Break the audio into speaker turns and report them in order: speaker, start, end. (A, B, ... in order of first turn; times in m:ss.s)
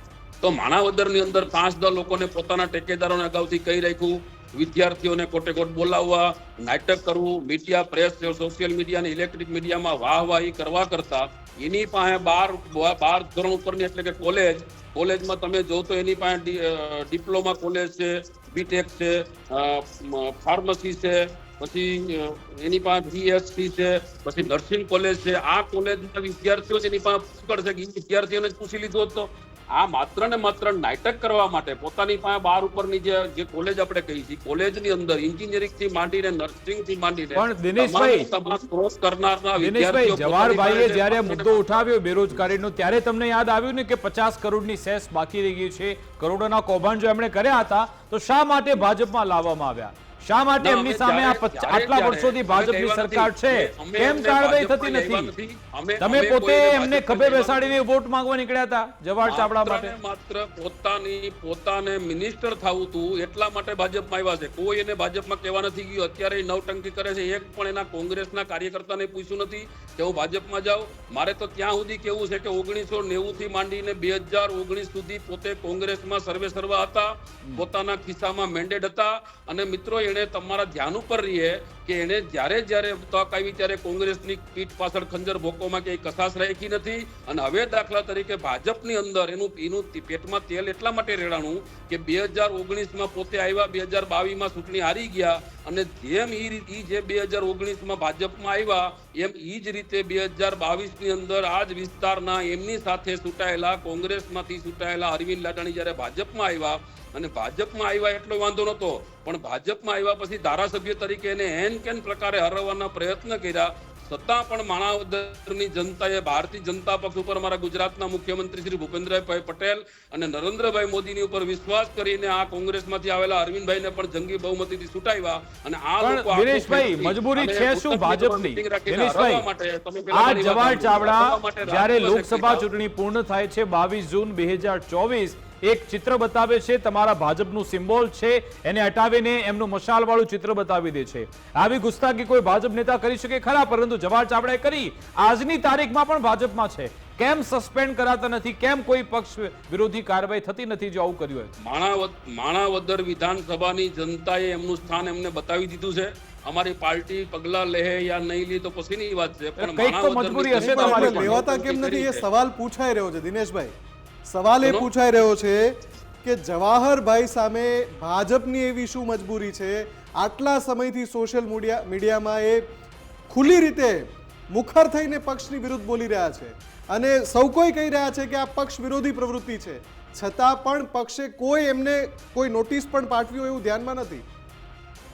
0:00.4-0:41.8 A
0:37.3-0:38.3 B
0:39.6-0:55.3 B
0:50.6-0:57.7 A
0:56.0-0:59.9 B
0:59.3-2:12.6 A
2:06.0-2:09.4 B
2:10.1-2:31.5 B
2:31.6-2:42.2 A
2:39.6-2:41.4 B
2:40.5-2:43.7 C
2:44.3-2:52.6 C
2:53.3-3:04.2 C